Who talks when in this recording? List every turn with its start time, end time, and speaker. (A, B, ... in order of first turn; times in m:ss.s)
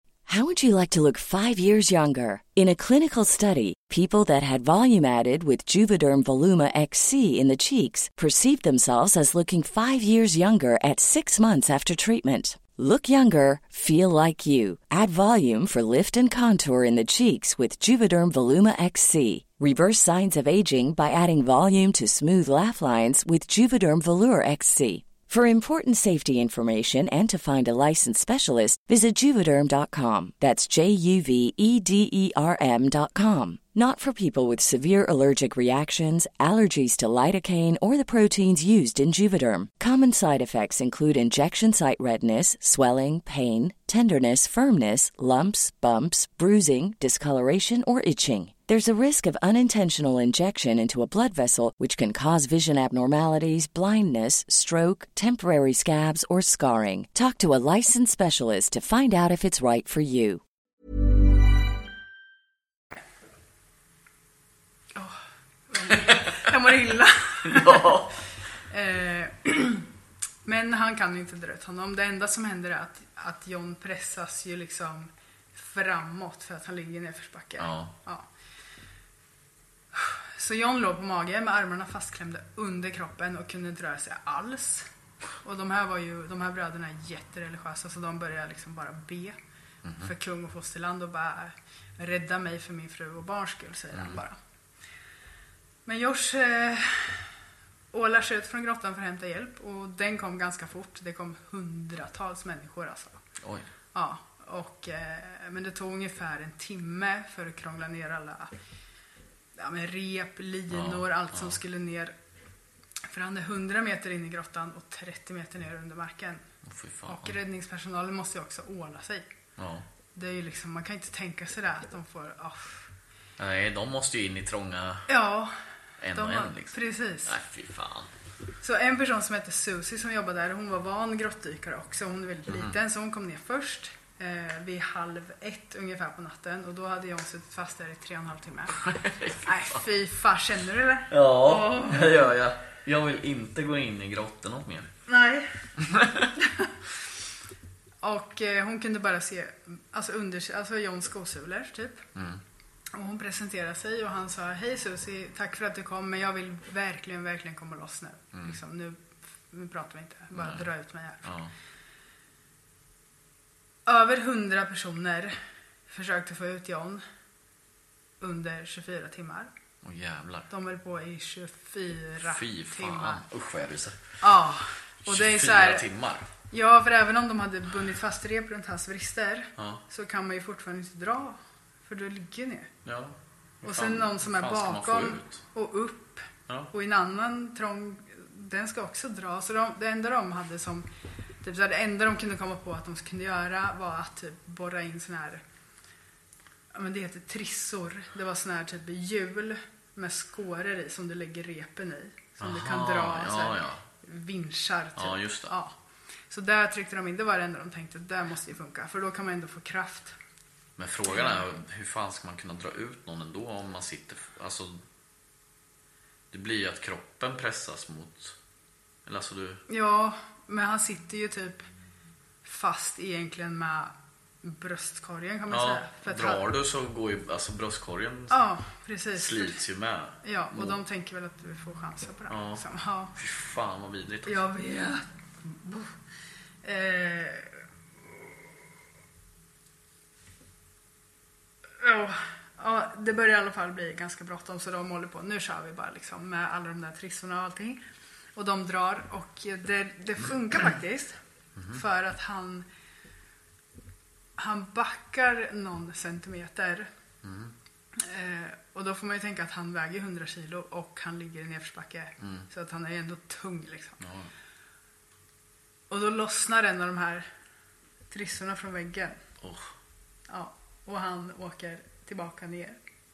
0:00.3-1:00.4 A
1:05.7-1:08.0 B
1:06.1-1:06.4 C
1:07.4-1:08.2 C
1:08.7-1:09.9 B
1:10.4-1:18.3 B
1:17.6-1:17.9 C
1:19.9-1:24.9 B
1:25.4-1:29.4 B
1:29.8-1:30.1 C
1:30.0-1:34.4 B
1:33.9-1:34.2 C
1:35.8-1:37.3 B
1:37.9-1:43.2 B
1:43.4-1:43.7 C
1:43.9-1:48.5 B
1:49.6-1:52.1 B
1:50.7-1:51.6 C
1:53.1-1:56.4 B
1:56.6-1:57.4 C
1:57.1-1:59.3 B
1:59.6-1:59.8 C
2:00.1-2:02.9 B
2:03.4-2:05.1 C
2:05.1-2:05.5 B
2:06.0-2:08.1 C
2:06.1-2:07.3 B
2:08.6-2:22.3 B
2:18.8-2:19.8 C
2:21.1-2:24.9 C
2:25.1-2:25.5 B
2:25.8-2:26.3 C
2:26.4-2:26.7 B
2:28.0-2:32.0 B
2:32.1-2:32.4 C
2:32.9-2:41.3 B
2:40.3-2:40.7 C
2:41.2-2:41.5 C
2:43.8-2:45.4 B
2:45.9-2:47.0 B
2:48.2-2:49.5 B
2:49.8-2:50.5 C
2:50.5-2:53.2 B
2:52.2-2:54.0 C
2:54.2-2:55.8 B
2:55.0-2:56.3 C
2:56.5-3:02.7 B
2:59.6-2:59.8 C
3:02.8-3:05.4 C
3:03.6-3:10.9 B
3:11.4-3:15.4 B
3:16.7-3:25.7 B
3:22.4-3:23.8 C
3:25.0-3:25.5 C
3:26.3-3:30.1 B
3:30.8-3:34.8 C
3:31.1-3:31.4 B
3:36.3-3:38.3 C
3:39.0-3:39.6 C
3:39.7-3:41.6 B
3:42.4-3:46.5 B
3:45.5-3:48.4 C
3:48.3-3:49.6 B
3:49.2-3:50.8 C
3:50.2-3:53.1 B
3:52.3-3:52.6 C
3:53.1-3:54.4 C
3:54.2-3:55.9 B
3:56.6-3:57.6 B
4:01.8-4:07.8 B
4:08.4-4:11.2 B
4:11.7-4:12.6 B
4:14.4-4:16.9 B
4:17.2-4:17.5 C
4:18.0-4:24.0 B
4:22.2-4:22.4 C
4:24.0-4:24.3 C
4:25.9-4:27.3 B
4:28.1-4:29.2 B
4:29.4-4:29.7 C
4:30.3-4:32.8 B